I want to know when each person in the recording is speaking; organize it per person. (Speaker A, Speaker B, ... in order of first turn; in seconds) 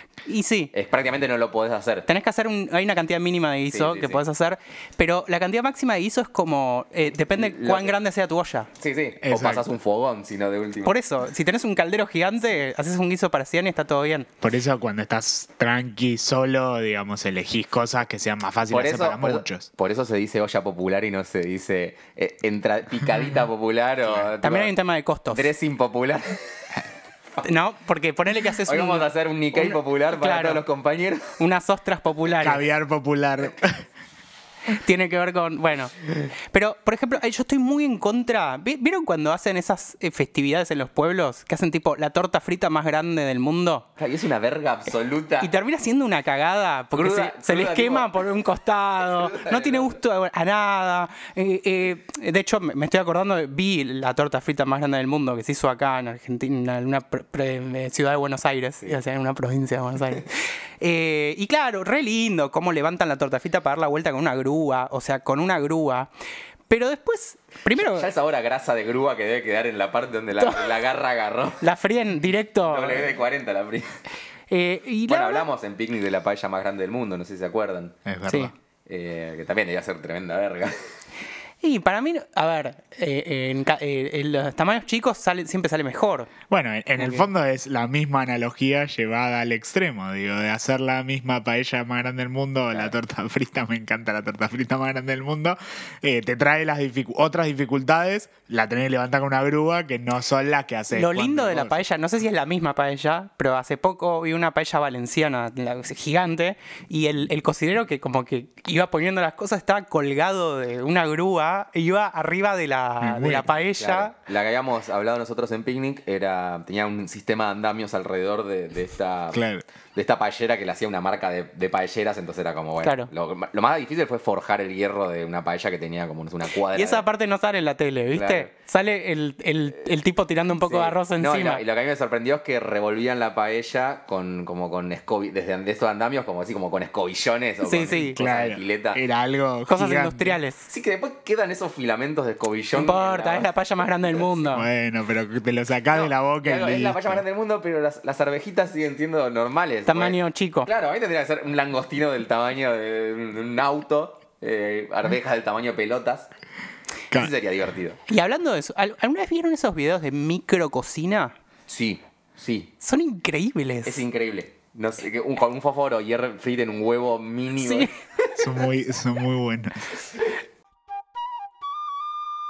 Speaker A: 0.2-0.7, 2.1-8.7, 10.8-14.3, 24.4-25.5, 27.4-30.6, 31.4-32.6, 34.7-35.9, 36.5-43.9, 45.4-66.1, 66.7-68.1, 70.4-70.8, 71.6-73.1, 74.5-75.5, 81.6-86.3, 87.0-87.3, 100.9-114.1, 122.8-123.1, 126.7-131.6, 137.6-138.2, 139.7-140.7, 142.7-144.7, 149.9-150.7, 158.1-161.3, 162.8-164.0, 167.6-167.9
Speaker B: 0.7-2.1, 3.7-4.2, 7.3-8.0, 8.8-10.9, 18.7-24.7, 25.3-26.4, 28.6-31.4, 44.0-45.5, 46.9-48.2, 49.0-50.0, 67.7-71.6, 72.7-74.0, 75.1-78.0, 78.9-80.8, 113.8-119.4, 119.9-127.0, 128.1-128.5, 130.6-139.0, 140.7-143.5, 144.0-144.3, 145.9-156.3, 157.1-158.0, 161.7-162.7, 163.8-167.9
Speaker C: 9.2-9.7, 14.4-19.7, 32.4-33.8, 78.0-78.5, 86.5-101.8, 113.0-113.5, 119.3-119.6, 138.1-140.4, 144.5-147.2, 168.4-169.9